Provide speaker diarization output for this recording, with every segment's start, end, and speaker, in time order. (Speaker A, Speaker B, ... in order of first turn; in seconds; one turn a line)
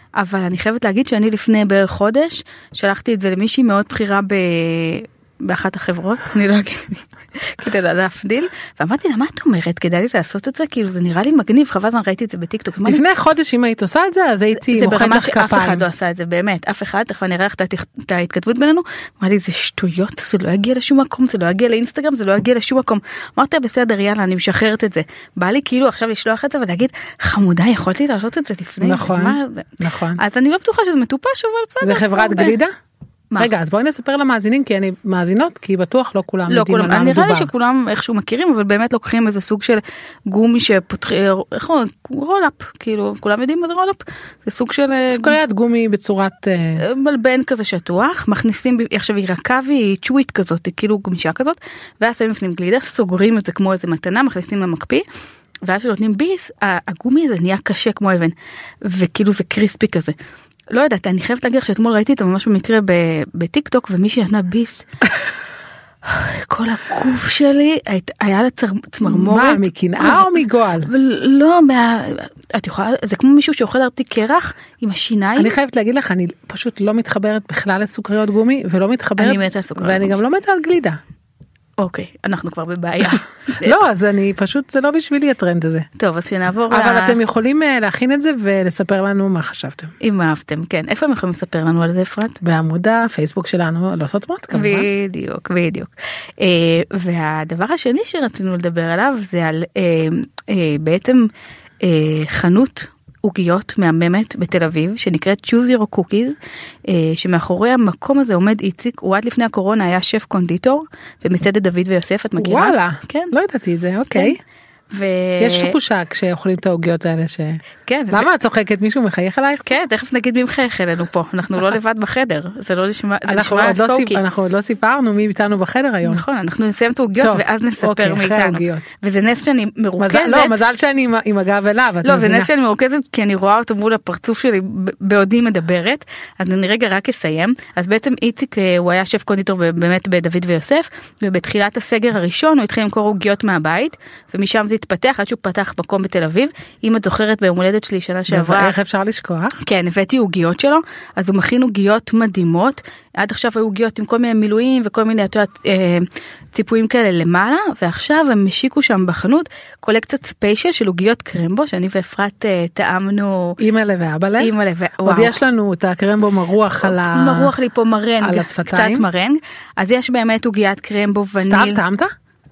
Speaker A: 0.2-13.0
Speaker B: 12.8-15.8
Speaker A: 14.7-32.6
Speaker B: 28.8-30.2
Speaker B: 31.8-32.7
Speaker B: 33.4-37.5
Speaker A: 36.5-45.4
Speaker B: 45.1-46.8
Speaker A: 46.8-55.0
Speaker A: 55.6-60.1
Speaker A: 60.7-64.8
Speaker A: 66.0-70.3
Speaker B: 69.0-70.9
Speaker A: 70.8-75.5
Speaker B: 75.4-81.0
Speaker A: 79.2-80.2
Speaker A: 81.8-83.8
Speaker B: 83.6-85.9
Speaker A: 86.0-87.2
Speaker B: 86.7-89.9
Speaker A: 90.0-92.4
Speaker B: 92.4-94.9
Speaker A: 94.5-101.3
Speaker A: 101.8-106.3
Speaker A: 106.9-113.3
Speaker B: 112.4-114.4
Speaker A: 114.9-115.8
Speaker B: 115.4-119.7
Speaker A: 117.8-118.2
Speaker A: 119.7-124.2
Speaker B: 123.3-126.2
Speaker A: 126.0-130.6
Speaker B: 127.2-128.8
Speaker B: 130.0-132.5
Speaker A: 132.0-148.7
Speaker B: 148.3-149.5
Speaker A: 149.6-163.6
Speaker B: 163.6-167.5
Speaker A: 164.4-165.3
Speaker A: 166.8-171.8
Speaker B: 168.2-169.0
Speaker B: 171.4-172.1